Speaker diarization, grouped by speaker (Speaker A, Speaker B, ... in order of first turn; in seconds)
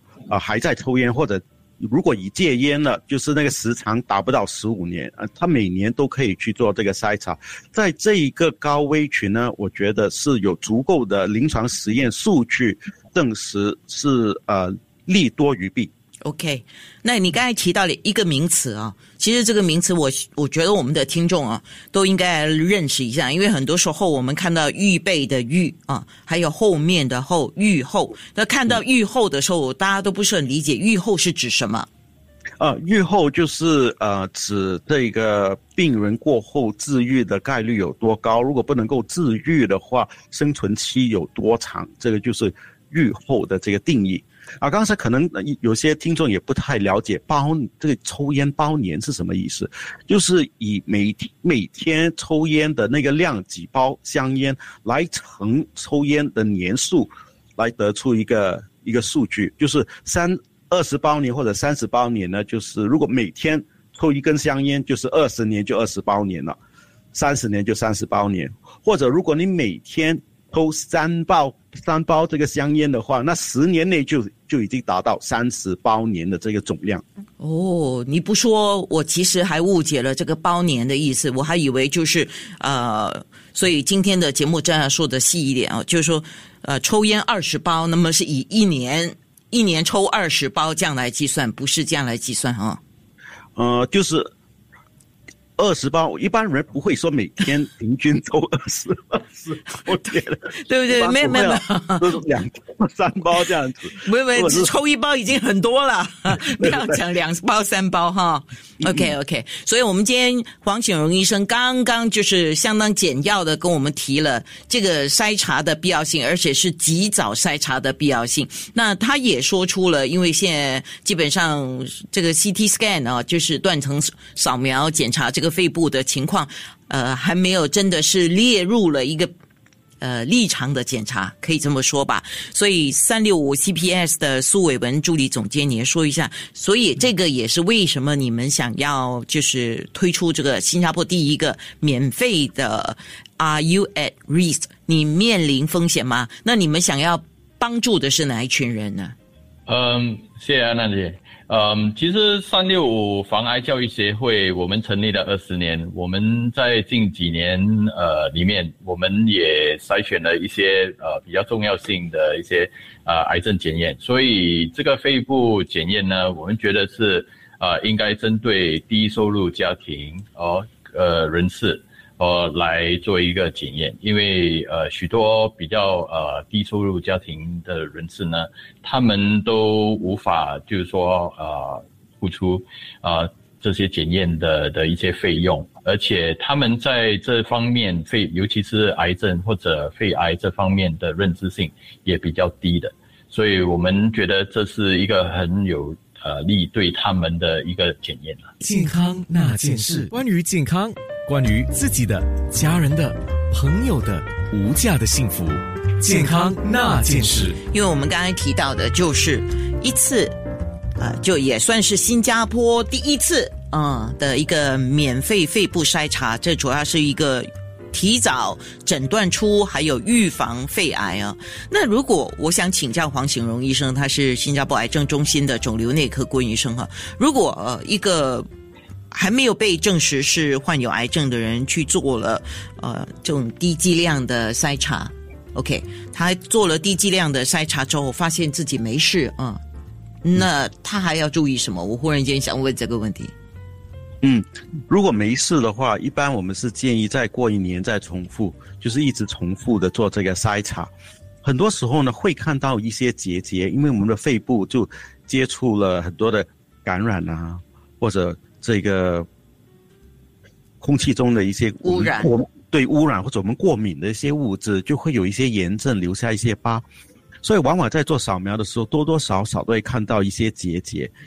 Speaker A: 0.3-15.9, 32.6-66.6, 67.1-77.0, 93.6-94.3, 95.6-104.7, 106.5-107.0, 108.8-109.1, 244.2-250.9, 251.4-259.3, 260.8-266.8, 267.4-271.1
Speaker B: 16.2-31.9, 77.4-92.8, 100.5-102.1, 104.0-129.3, 130.0-149.1, 207.7-210.4, 211.0-228.5, 229.1-239.6, 240.2-243.3, 261.8-262.3
Speaker C: 149.7-198.5
Speaker D: 198.6-207.6